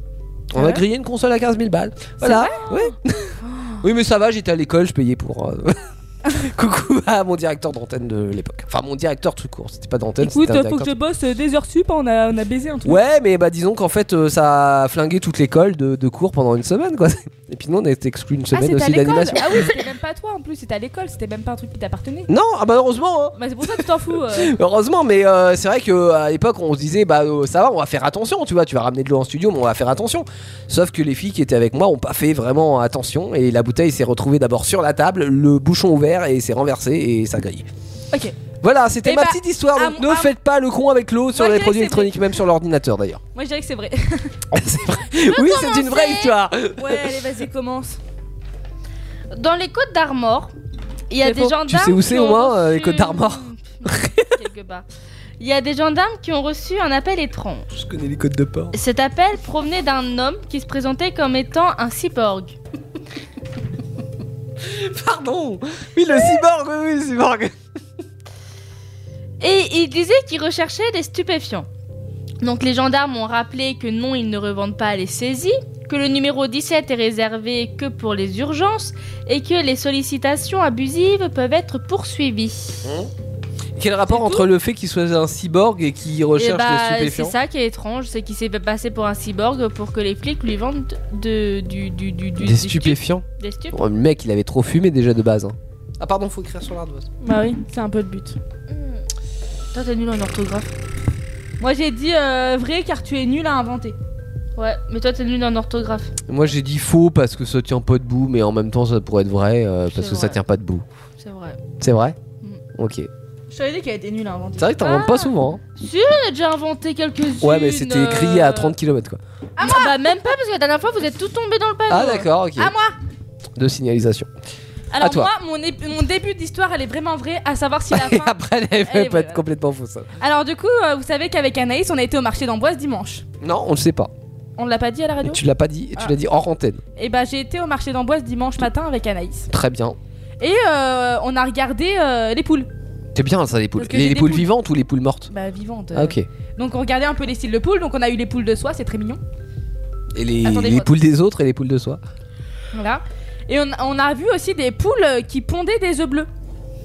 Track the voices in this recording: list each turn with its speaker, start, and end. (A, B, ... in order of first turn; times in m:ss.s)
0:00.5-0:10.9 A
0:00.6-0:00.8 B
0:02.2-0:02.7 B
0:10.2-0:13.0 B
0:12.8-0:19.7 A
0:18.5-0:22.3 B
0:22.3-0:37.7 A
0:23.4-0:24.6 B
0:38.6-0:43.2 A
0:39.0-0:40.3 B
0:41.3-0:42.3 B
0:43.4-0:44.3 B
0:44.5-0:47.1 A
0:45.2-0:46.4 C
0:46.8-0:48.0 B
0:49.3-0:50.5 C
0:51.1-0:54.8 C
0:51.2-0:54.3 A
0:55.4-0:57.7 C
0:57.7-0:58.8 A
0:58.7-1:02.6 C
1:04.6-1:07.5 A
1:09.4-1:11.7 C
1:12.4-1:22.9 C
1:22.8-1:23.1 A
1:23.8-1:27.4 A
1:26.4-1:33.8 C
1:32.4-1:37.1 A
1:37.2-1:38.4 B
1:38.7-1:39.0 C
1:39.7-1:40.7 C
1:41.6-1:44.0 B
1:44.6-1:46.1 C
1:46.3-1:50.8 A
1:49.9-1:50.4 C
1:51.2-1:51.6 C
1:51.8-1:52.2 A
1:52.8-1:53.1 A
1:53.5-1:55.0 B
1:54.6-1:55.6 A
1:54.8-1:58.8 C
1:57.4-1:59.2 A
1:59.6-2:00.2 B
1:59.6-2:02.3 C
2:01.9-2:02.7 A
2:02.6-2:03.0 B
2:03.6-2:04.3 A
2:04.9-2:09.4 B
2:05.0-2:05.3 A
2:07.9-2:10.1 A
2:10.2-2:13.2 B
2:13.4-2:14.1 A
2:14.6-2:15.4 B
2:15.2-2:16.8 A
2:17.0-2:19.5 B
2:19.5-2:20.0 A
2:20.4-2:22.7 B
2:23.2-2:25.3 A
2:23.8-2:24.5 B
2:25.3-2:29.2 B
2:25.9-2:26.3 A
2:30.1-2:32.0 A
2:30.4-2:30.9 B
2:32.7-2:36.3 B